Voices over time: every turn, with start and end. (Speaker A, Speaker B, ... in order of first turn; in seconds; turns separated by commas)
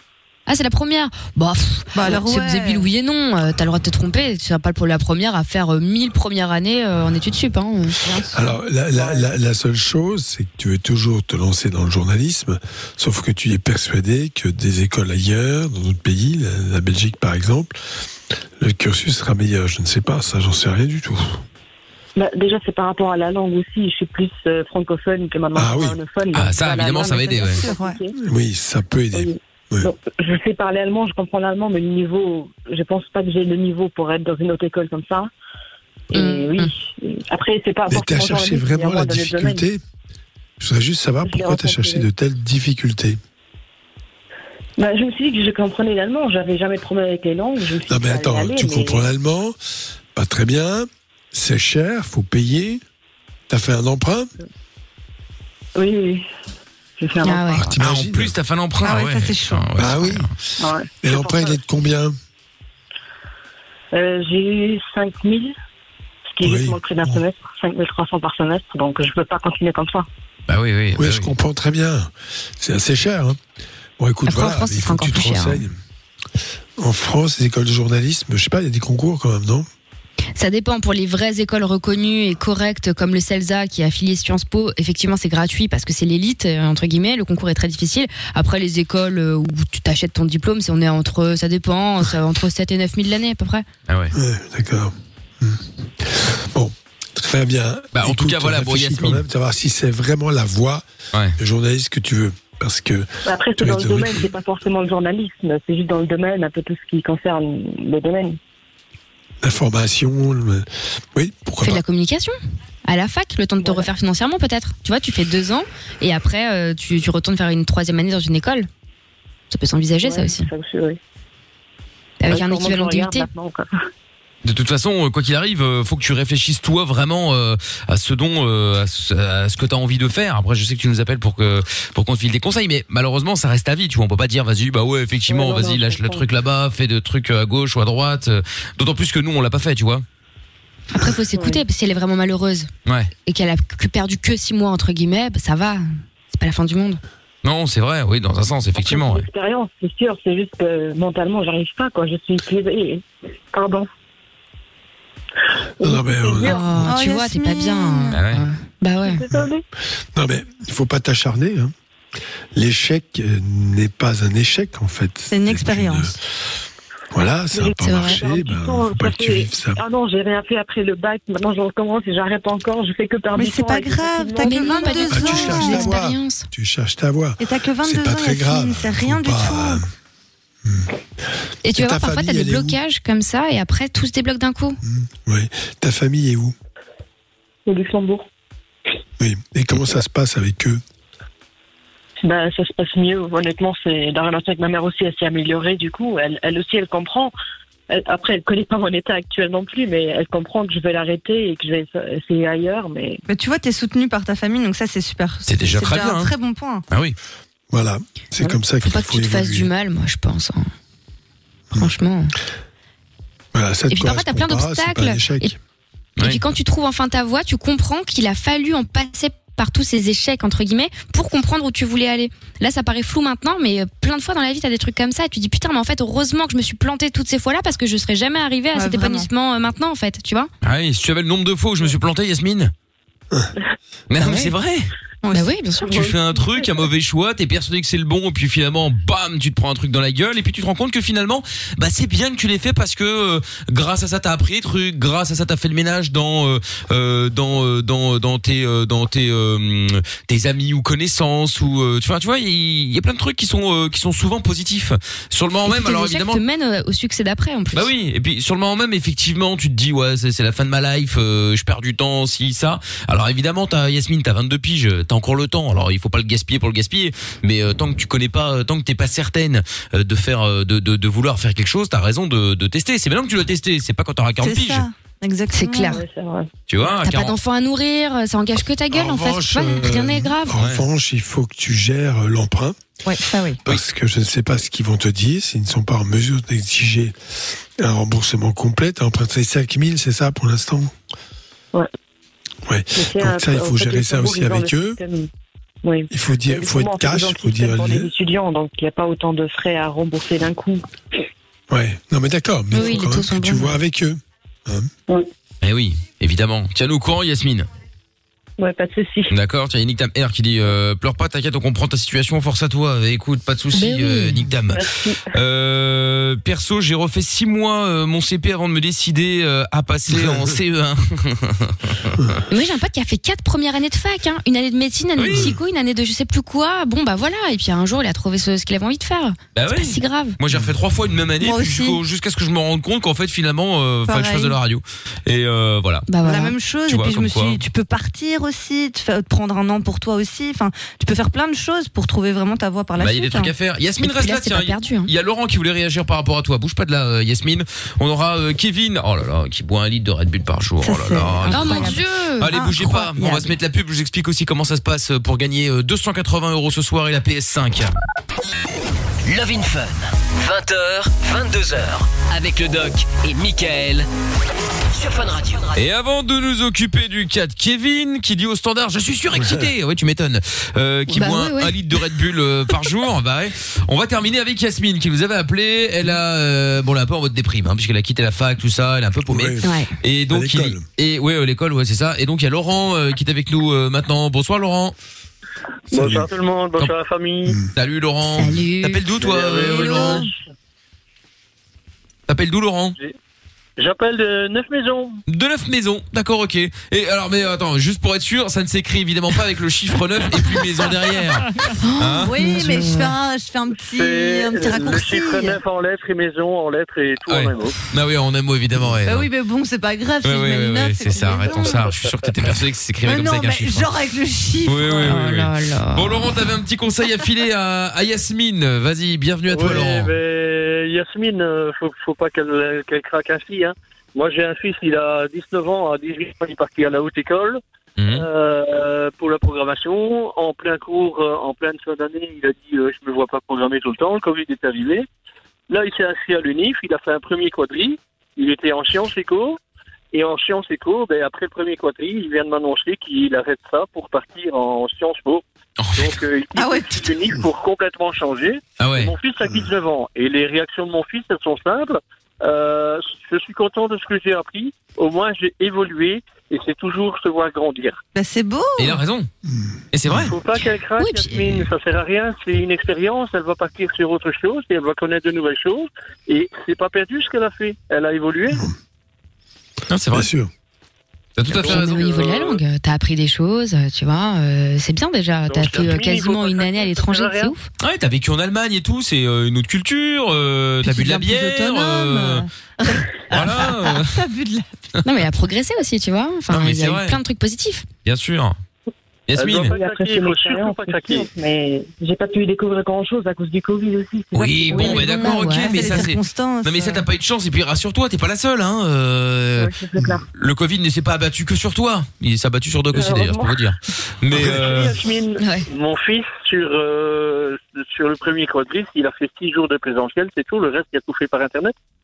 Speaker A: 0.5-8.0, Speaker B: 1.9-2.9, Speaker B: 8.0-8.4, Speaker C: 8.3-17.8, Speaker D: 8.9-9.3, Speaker C: 18.6-21.4, Speaker D: 22.1-28.1, Speaker C: 25.5-26.0, Speaker E: 26.3-27.6, Speaker B: 27.3-28.0, Speaker C: 28.2-29.9, Speaker D: 29.1-35.3, Speaker D: 36.1-39.6, Speaker A: 36.1-36.7, Speaker C: 37.9-39.8, Speaker C: 40.6-43.2, Speaker D: 41.2-42.0, Speaker D: 44.8-49.1, Speaker C: 47.9-49.6, Speaker C: 50.1-52.8, Speaker C: 53.5-54.3, Speaker D: 55.7-56.2, Speaker D: 57.0-57.8, Speaker A: 57.2-57.7, Speaker C: 57.5-58.3, Speaker E: 57.8-60.3, Speaker B: 58.8-59.9, Speaker C: 59.8-60.3, Speaker D: 60.6-61.6, Speaker C: 61.0-62.1, Speaker D: 63.9-65.5, Speaker D: 66.3-70.1, Speaker C: 66.4-67.2, Speaker E: 70.5-71.3, Speaker C: 71.0-73.4, Speaker C: 74.0-75.8, Speaker A: 74.3-75.6, Speaker C: 76.8-79.7, Speaker A: 80.4-93.6, Speaker E: 93.9-94.1, Speaker C: 94.1-100.8, Speaker E: 97.9-99.2, Speaker C: 101.4-104.3, Speaker D: 103.2-108.4, Speaker C: 109.4-111.8, Speaker A: 111.6-112.3, Speaker A: 112.8-118.7, Speaker D: 113.6-113.9, Speaker A: 119.5-120.5, Speaker D: 120.0-121.0, Speaker A: 122.2-123.3, Speaker D: 122.3-123.7, Speaker E: 124.4-140.0, Speaker D: 135.3-136.2, Speaker A: 140.9-142.7, Speaker D: 141.3-141.6, Speaker E: 142.8-143.1, Speaker A: 143.3-147.0, Speaker E: 147.4-149.2, Speaker D: 148.8-153.9, Speaker D: 155.8-156.7, Speaker C: 155.8-156.9, Speaker A: 156.4-159.2, Speaker B: 156.8-158.2, Speaker E: 158.1-158.4, Speaker D: 159.0-159.6, Speaker C: 160.1-161.7, Speaker C: 162.5-166.2, Speaker B: 165.3-166.1, Speaker C: 167.1-169.8, Speaker D: 167.5-175.3, Speaker A: 167.8-168.2, Speaker B: 173.3-175.9, Speaker A: 174.4-176.4, Speaker C: 175.1-179.8, Speaker B: 177.4-179.8, Speaker C: 180.6-180.9, Speaker A: 181.6-184.8, Speaker C: 181.7-182.8, Speaker C: 184.8-186.5, Speaker D: 187.7-188.3, Speaker C: 189.2-190.8, Speaker D: 192.2-197.3, Speaker D: 197.9-203.2, Speaker B: 203.3-206.8, Speaker E: 205.4-206.3, Speaker E: 206.9-207.2, Speaker C: 207.7-209.7, Speaker A: 208.4-210.7, Speaker A: 211.7-212.3, Speaker C: 213.5-215.6, Speaker A: 213.9-215.5, Speaker A: 216.2-230.5, Speaker B: 228.7-229.3, Speaker E: 230.6-232.7, Speaker E: 234.1-234.9, Speaker A: 234.2-234.5, Speaker B: 235.2-235.6, Speaker A: 235.3-236.1, Speaker D: 235.8-236.7, Speaker E: 235.8-256.4, Speaker A: 255.6-257.9, Speaker E: 257.7-274.9, Speaker B: 274.4-276.0, Speaker A: 275.5-276.0, Speaker D: 275.9-276.5, Speaker E: 276.7-277.3, Speaker A: 277.0-280.6, Speaker C: 278.9-282.8, Speaker E: 280.5-280.8, Speaker B: 283.0-283.6, Speaker C: 283.6-287.1, Speaker C: 287.8-290.9, Speaker C: 292.6-295.0, Speaker D: 292.9-295.3, Speaker D: 295.8-300.8, Speaker C: 296.1-298.1, Speaker C: 301.7-304.9, Speaker A: 302.7-303.8, Speaker E: 305.6-307.7, Speaker D: 308.6-309.3, Speaker E: 309.3-322.2, Speaker A: 313.7-314.4, Speaker D: 314.7-315.2, Speaker C: 320.1-320.6, Speaker A: 322.5-330.4, Speaker E: 325.2-325.5, Speaker C: 325.3-325.6, Speaker E: 329.5-336.1, Speaker B: 331.4-332.0, Speaker B: 334.1-334.6, Speaker A: 336.1-336.5, Speaker B: 336.2-343.5, Speaker E: 336.9-337.6, Speaker E: 343.0-357.9, Speaker A: 344.0-345.1, Speaker B: 350.8-353.5, Speaker A: 351.5-352.5, Speaker F: 359.2-364.1, Speaker F: 364.9-365.8, Speaker E: 365.7-384.9, Speaker C: 369.3-369.7, Speaker A: 371.1-371.8, Speaker C: 379.3-379.7, Speaker A: 379.6-379.9, Speaker C: 380.3-380.8, Speaker G: 385.9-387.6, Speaker C: 385.9-386.3, Speaker E: 387.7-390.3, Speaker A: 388.3-389.0, Speaker G: 389.2-390.4, Speaker B: 389.7-390.3, Speaker E: 392.3-392.9, Speaker G: 393.8-395.2, Speaker E: 395.3-402.3, Speaker A: 401.8-403.1, Speaker B: 402.2-405.6, Speaker G: 403.8-407.8, Speaker E: 407.3-409.3, Speaker B: 409.0-411.9, Speaker E: 410.2-413.9, Speaker B: 413.0-415.2, Speaker E: 414.6-420.1, Speaker A: 415.0-416.4, Speaker G: 419.5-427.6, Speaker E: 428.0-428.3, Speaker G: 428.1-435.1, Speaker G: 435.7-439.6, Speaker G: 440.1-445.4, Speaker E: 445.8-446.2, Speaker G: 445.9-458.0, Speaker B: 446.5-447.3, Speaker E: 448.8-449.1, Speaker B: 458.1-459.0, Speaker E: 458.8-459.3, Speaker C: 459.4-460.3, Speaker E: 459.9-460.3, Speaker G: 460.1-468.6, Speaker A: 461.0-461.6, Speaker E: 469.9-470.3, Speaker C: 470.1-470.5, Speaker E: 471.4-472.1, Speaker G: 471.5-472.6, Speaker A: 471.6-477.6, Speaker G: 475.5-477.5, Speaker E: 477.8-482.4, Speaker B: 480.8-484.8, Speaker E: 483.3-484.2, Speaker A: 485.0-487.9, Speaker E: 486.5-487.2, Speaker E: 488.0-488.6, Speaker E: 489.3-489.7, Speaker G: 489.3-491.3, Speaker D: 489.7-495.1, Speaker E: 494.3-499.7, Speaker B: 494.7-497.0, Speaker A: 494.7-495.9, Speaker D: 499.6-500.2, Speaker E: 500.3-505.0, Speaker D: 502.9-503.6, Speaker G: 504.3-511.7, Speaker A: 505.4-505.6